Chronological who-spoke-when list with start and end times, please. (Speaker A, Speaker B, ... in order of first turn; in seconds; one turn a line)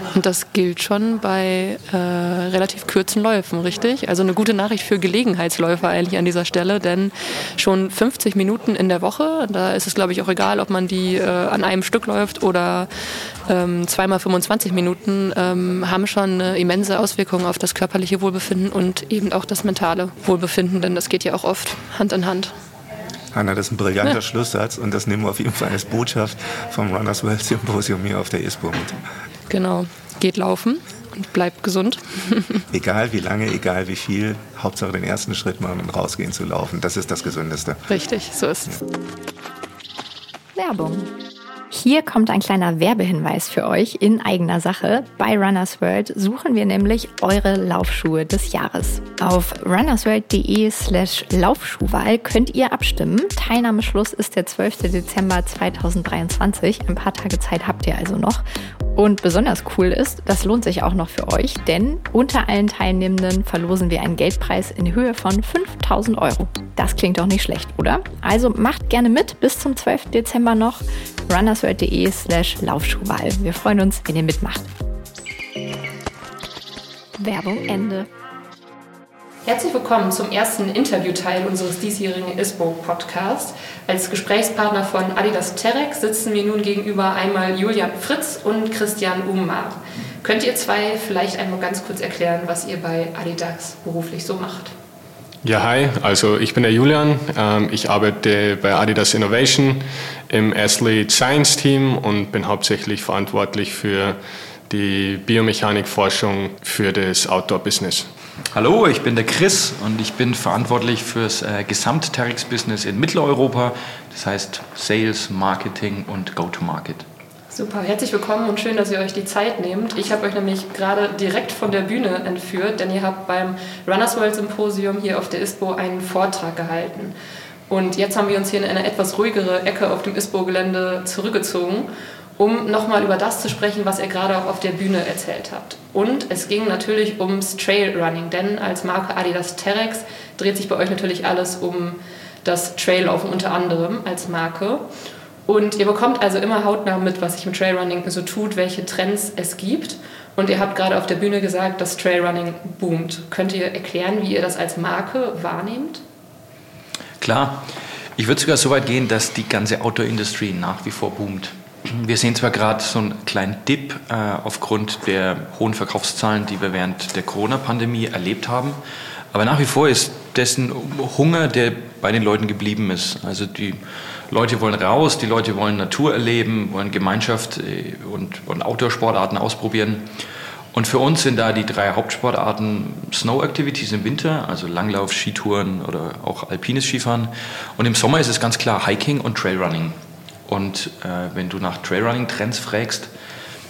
Speaker A: 0.1-12.9
Speaker A: 13.5-22.5
Speaker B: 23.3-29.0
Speaker A: 29.5-32.6
Speaker B: 32.7-37.9
Speaker A: 37.9-38.8
Speaker C: 40.6-41.1
Speaker C: 41.7-58.4
Speaker C: 59.0-74.7
Speaker C: 77.2-78.1
Speaker A: 79.5-94.7
Speaker D: 95.4-104.2
Speaker D: 104.7-108.1
Speaker E: 108.5-117.1
Speaker A: 117.5-127.2
Speaker A: 127.7-144.8
Speaker A: 145.5-156.0
Speaker E: 157.2-168.8
Speaker E: 169.3-180.1
Speaker E: 180.7-193.1